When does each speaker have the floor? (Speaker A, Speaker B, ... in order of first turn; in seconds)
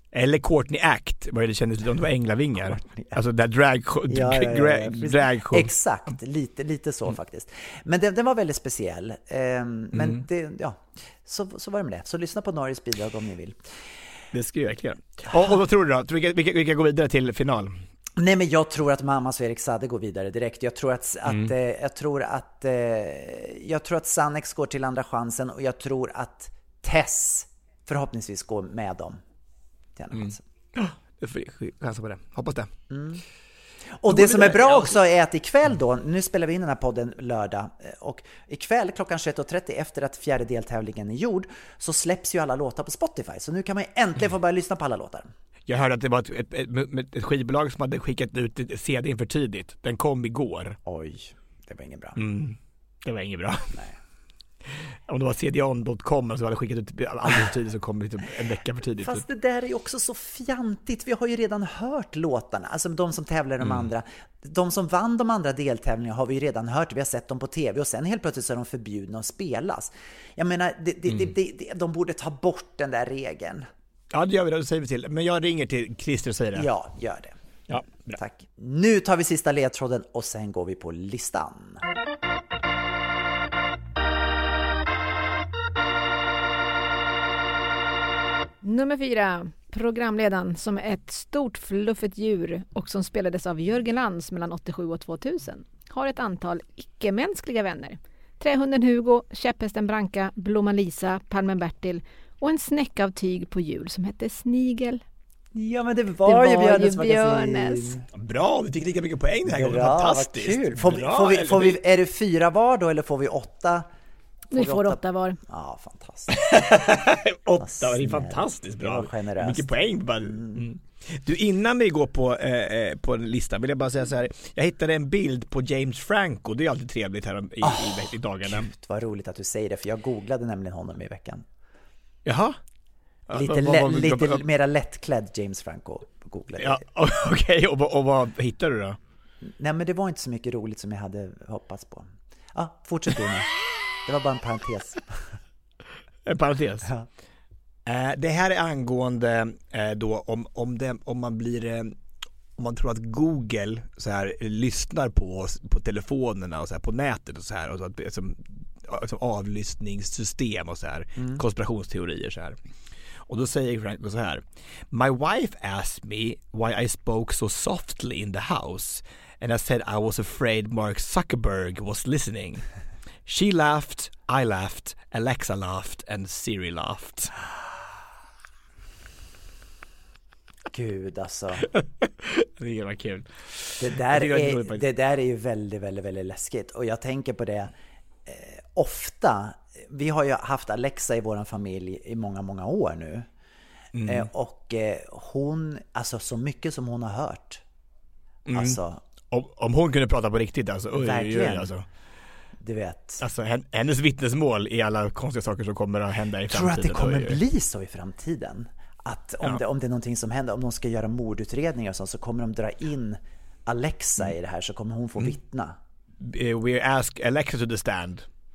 Speaker A: 0.1-5.7, 9.9-10.2, 14.3-17.8, 21.3-21.5, 30.1-32.7, 34.1-35.0, 45.7-50.8, 52.1-53.8, 55.1-59.2, 63.6-63.9, 74.1-76.7, 77.7-78.2, 108.1-111.8, 116.3-128.7, 132.2-132.6, 133.3-134.4, 136.6-139.0, 146.3-146.9, 147.8-151.9, 152.6-162.6, 163.3-172.7, 173.3-177.3, 181.8-184.8, 193.9-194.3, 198.5-198.8, 199.3-201.8, 203.2-207.4, 216.2-218.2
Speaker B: 2.6-3.1, 4.1-13.7, 18.2-29.2, 29.9-30.4, 32.9-33.2, 34.0-45.3, 50.9-52.2, 59.0-73.7, 76.5-77.4, 78.1-81.8, 105.5-108.0, 109.5-113.9, 114.5-116.5, 117.6-120.7, 127.6-131.4, 133.3-136.8, 139.4-143.5, 144.1-145.3, 161.2-161.4, 180.7-181.7, 183.8-187.7, 188.2-193.3, 194.0-197.6, 198.5-199.0, 200.9-201.7, 202.6-203.2, 206.5-215.8
Speaker C: 88.6-105.0, 106.2-108.0, 114.5-115.4